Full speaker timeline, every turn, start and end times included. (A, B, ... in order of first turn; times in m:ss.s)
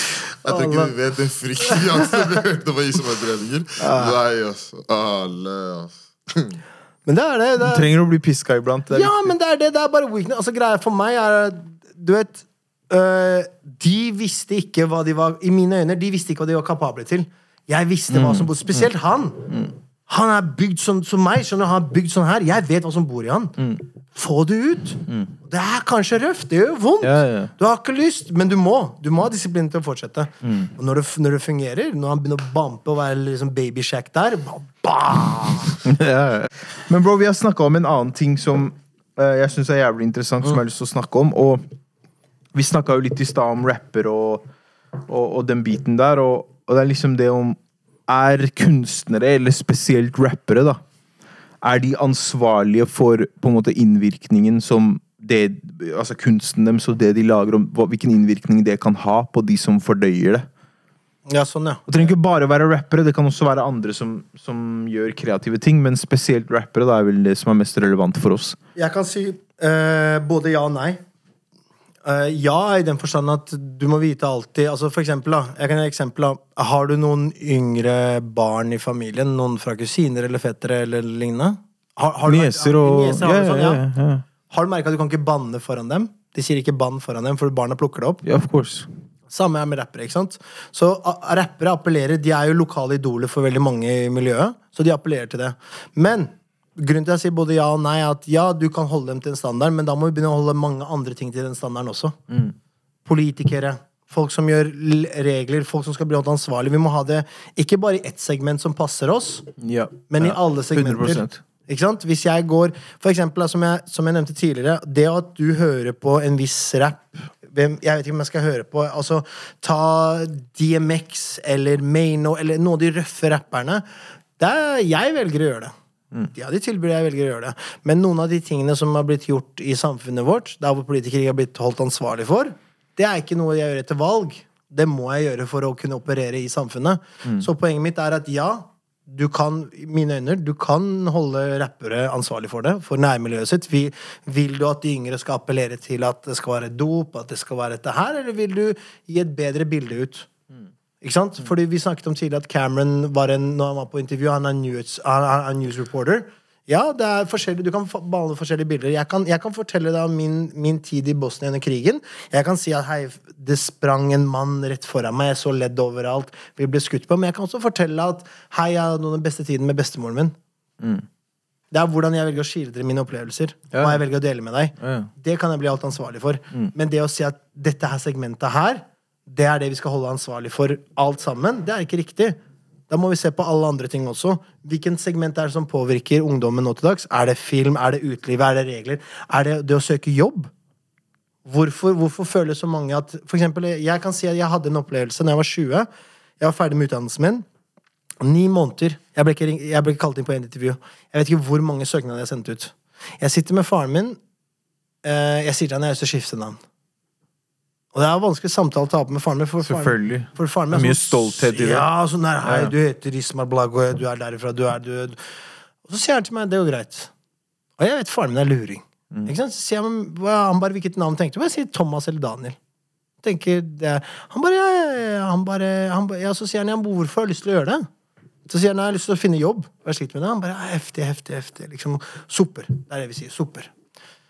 0:00.4-0:00.9 A
0:00.4-0:06.6 B
0:03.8-0:04.2 A
0:07.1-0:07.9 A
0:07.6-0:09.2 C
0:08.9-0:19.5 A
0:18.1-0:18.9 C
0:20.1-0:23.6 A
0:24.1-0:35.8 A
0:27.0-0:27.5 C
0:30.4-0:30.7 C
0:35.8-0:41.6 C
0:42.5-0:44.4 C
0:45.1-0:50.8 C
0:51.6-1:00.5 C
1:01.3-1:02.1 A
1:01.9-1:08.6 C
1:08.8-1:11.0 A
1:12.0-1:23.8 A
1:22.3-1:24.2 C
1:24.5-1:28.2 A
1:28.2-1:28.9 C
1:29.3-1:42.2 A
1:43.0-1:49.5 A
1:49.6-1:51.4 C
1:50.1-2:03.8 A
2:04.4-2:05.7 A
2:06.3-2:30.3 A
2:31.0-2:50.4 A
2:50.8-2:51.0 C
2:51.7-3:02.4 A
2:53.7-2:54.0 C
2:54.8-2:55.1 C
3:02.9-3:10.5 A
3:11.5-3:15.9 A
3:16.4-3:17.4 A
3:18.2-3:24.2 A
3:25.0-3:26.6 A
3:27.9-3:35.2 A
3:29.6-3:31.9 C
3:32.4-3:32.7 C
3:35.8-3:37.1 A
3:37.8-3:42.6 A
3:43.2-3:47.9 A
3:48.5-3:53.7 A